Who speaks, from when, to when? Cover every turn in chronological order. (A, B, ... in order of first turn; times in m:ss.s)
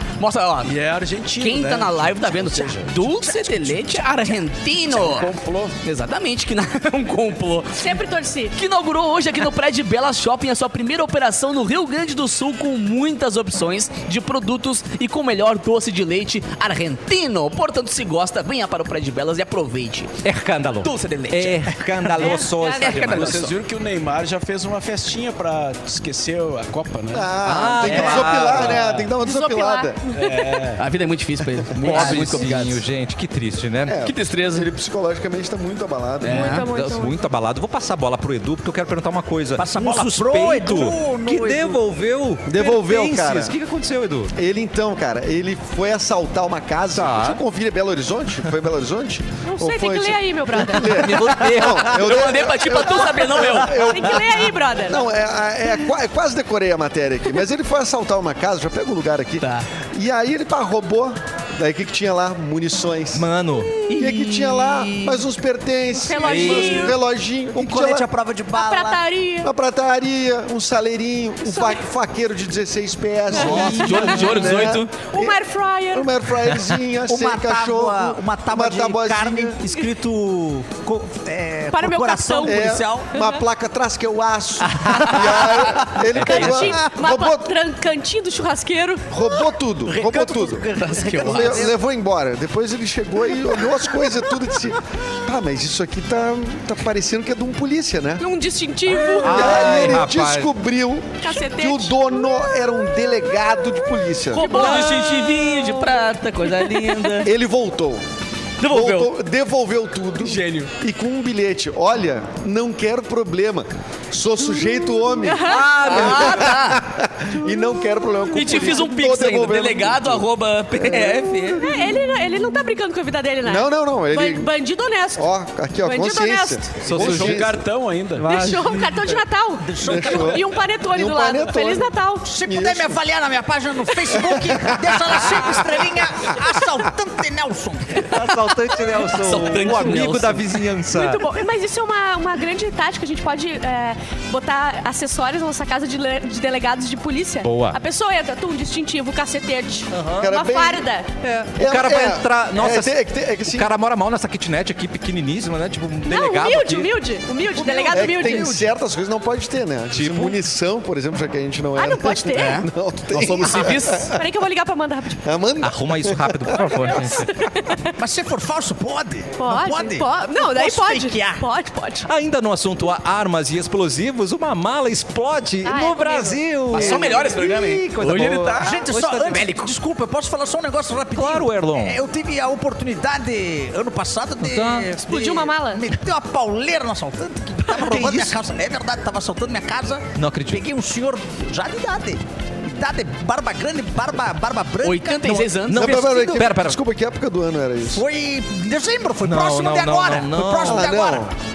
0:00.2-0:00.7 A
0:00.6-0:03.0 B
0:01.4-0:05.3 A
0:03.1-0:04.1 C
0:04.9-0:05.8 B
0:05.8-0:07.9 A
0:07.8-0:08.5 D
0:08.5-0:20.2 A
0:20.2-0:23.5 E
0:20.8-0:23.5 A
0:22.1-0:23.1 D
0:23.0-0:29.1 B
0:27.1-0:30.0 F
0:27.4-0:28.8 E
0:29.2-0:30.7 D
0:30.1-0:30.8 B
0:30.8-0:32.8 A
0:31.8-0:32.6 B
0:31.8-0:34.0 E
0:33.9-0:36.6 F
0:34.0-0:34.7 A
0:36.2-0:36.6 A
0:36.3-0:37.2 D
0:36.5-0:44.3 E
0:39.6-0:41.8 C
0:42.4-0:43.5 F
0:44.3-1:03.3 F
0:46.9-0:47.4 E
0:49.4-0:51.1 D
0:50.9-0:54.0 A
0:51.2-0:51.9 E
0:53.7-0:55.0 D
0:59.4-0:59.7 A
1:03.1-1:03.8 E
1:03.8-1:05.2 A
1:03.9-1:08.0 F
1:05.9-1:07.0 D
1:06.3-1:06.9 E
1:07.5-1:09.0 C
1:08.5-1:09.5 D
1:09.4-1:15.4 F
1:11.4-1:11.8 D
1:13.4-1:13.9 C
1:13.4-1:16.1 D
1:13.4-1:14.3 E
1:13.4-1:14.9 A
1:15.9-1:19.6 F
1:17.0-1:23.2 C
1:21.7-1:23.4 D
1:22.4-1:27.5 F
1:24.7-1:25.9 C
1:26.1-1:26.9 E
1:26.2-1:29.5 D
1:29.1-1:30.6 F
1:29.8-1:31.8 C
1:30.8-1:31.7 A
1:31.2-1:38.2 F
1:38.2-1:39.9 D
1:39.2-1:40.5 E
1:39.2-1:44.4 F
1:41.2-1:42.1 D
1:44.3-1:45.9 D
1:44.3-1:47.3 A
1:47.2-1:48.0 F
1:48.6-1:49.1 A
1:48.6-2:01.8 F
1:50.2-1:50.7 B
1:55.2-1:55.8 D
1:55.4-1:56.8 A
1:58.3-2:01.7 A
2:01.6-2:05.3 D
2:03.4-2:04.5 F
2:05.2-2:07.6 F
2:05.8-2:06.9 D
2:06.8-2:07.5 E
2:06.9-2:08.4 B
2:08.2-2:09.1 E
2:08.2-2:12.3 D
2:09.6-2:10.4 C
2:09.8-2:13.0 F
2:12.2-2:18.2 C
2:14.1-2:15.2 F
2:18.0-2:21.3 E
2:19.1-2:20.5 A
2:20.9-2:31.2 D
2:27.4-2:27.8 E
2:29.9-2:30.3 E
2:30.2-2:30.8 F
2:31.2-2:32.9 E
2:31.6-2:33.7 F
2:33.4-2:36.9 E
2:36.0-2:38.6 D
2:37.6-2:38.7 C
2:37.9-2:44.2 F
2:39.9-2:40.4 E
2:41.7-2:42.6 D
2:42.3-2:44.1 A
2:43.3-2:45.2 D
2:45.2-2:47.0 F
2:45.6-2:47.3 E
2:46.8-2:48.0 D
2:48.0-2:51.5 C
2:49.4-2:52.1 D
2:52.0-2:59.5 E
2:55.6-2:57.4 D
2:56.7-2:59.7 A
2:58.5-3:16.5 C
3:01.1-3:02.0 E
3:04.4-3:05.0 E
3:05.1-3:05.9 D
3:07.7-3:08.3 E
3:10.1-3:10.6 E
3:14.8-3:16.1 A
3:15.7-3:16.8 E
3:15.7-3:18.0 F
3:17.9-3:21.3 C
3:19.2-3:20.9 E
3:20.6-3:21.3 F